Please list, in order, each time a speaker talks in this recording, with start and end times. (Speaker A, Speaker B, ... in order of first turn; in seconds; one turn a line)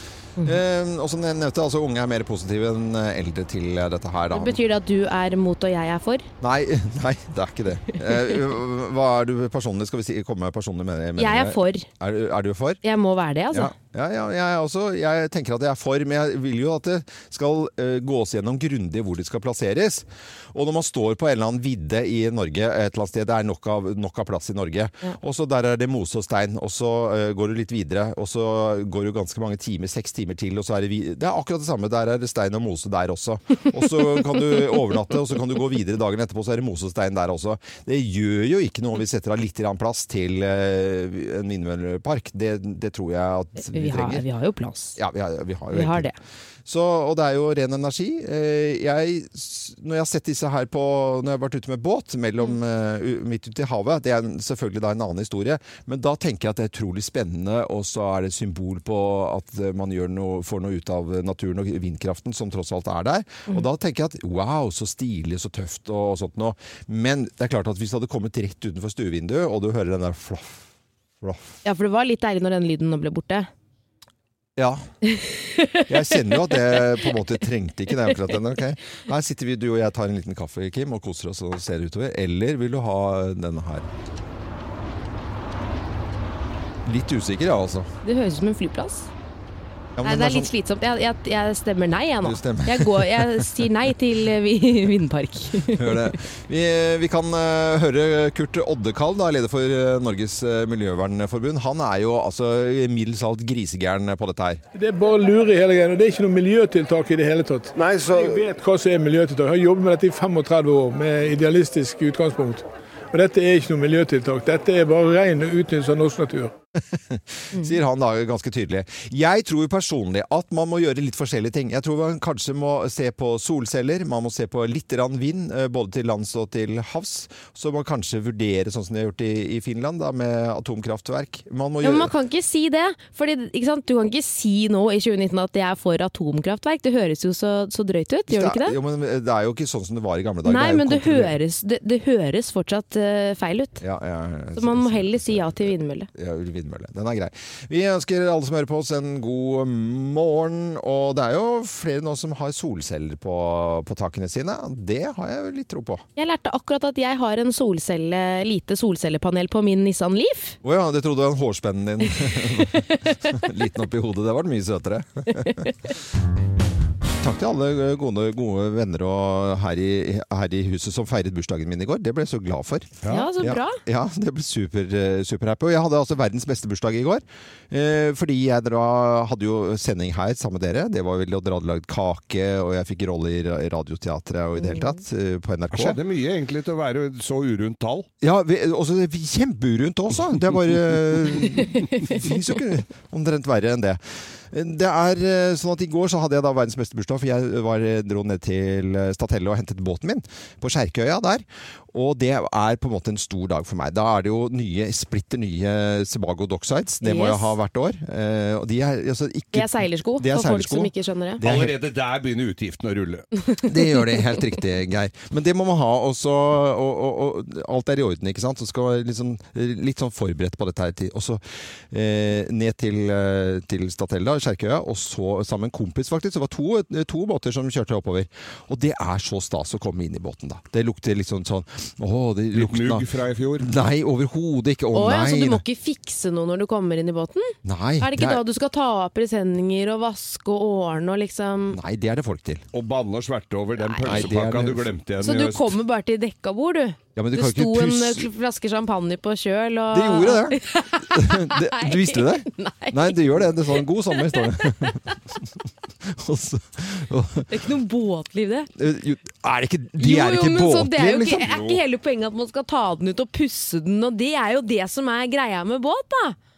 Speaker A: 0.4-4.6
Speaker B: 4.3-6.3
Speaker A: 6.4-12.8
Speaker B: 11.2-11.9
Speaker B: 12.8-13.7
Speaker A: 13.5-44.2
Speaker B: 43.6-45.0
Speaker A: 45.0-46.1
Speaker B: 45.7-46.1
Speaker A: 46.6-70.6
Speaker A: 71.2-71.5
Speaker B: 71.6-73.5
Speaker A: 74.6-74.8
Speaker B: 75.1-77.0
Speaker A: 75.9-83.9
Speaker A: 86.8-87.9
Speaker B: 88.0-89.1
Speaker A: 90.0-90.5
Speaker B: 90.0-96.1
Speaker A: 92.2-93.7
Speaker A: 95.7-104.6
Speaker C: 104.8-116.5
Speaker A: 116.8-132.1
Speaker B: 131.8-138.8
Speaker A: 138.3-141.3
Speaker B: 140.4-143.8
Speaker A: 143.8-156.0
Speaker B: 144.6-146.1
Speaker B: 156.2-160.6
Speaker A: 160.6-165.7
Speaker B: 165.4-165.7
Speaker A: 167.2-186.0
Speaker D: 173.0-173.3
Speaker B: 173.1-173.8
Speaker B: 184.6-185.0
Speaker D: 185.7-188.1
Speaker A: 188.2-211.8
Speaker B: 207.0-207.5
Speaker B: 209.5-211.4
Speaker D: 211.4-213.3
Speaker A: 213.6-233.0
Speaker D: 232.5-233.7
Speaker A: 233.6-235.6
Speaker B: 234.9-241.8
Speaker A: 237.6-238.4
Speaker A: 241.7-242.6
Speaker D: 242.7-245.8
Speaker B: 243.8-244.2
Speaker A: 244.0-244.9
Speaker B: 245.2-255.1
Speaker A: 247.2-248.3
Speaker A: 249.9-257.5
Speaker B: 257.5-258.7
Speaker A: 258.8-261.5
Speaker B: 260.0-266.4
Speaker D: 261.4-261.8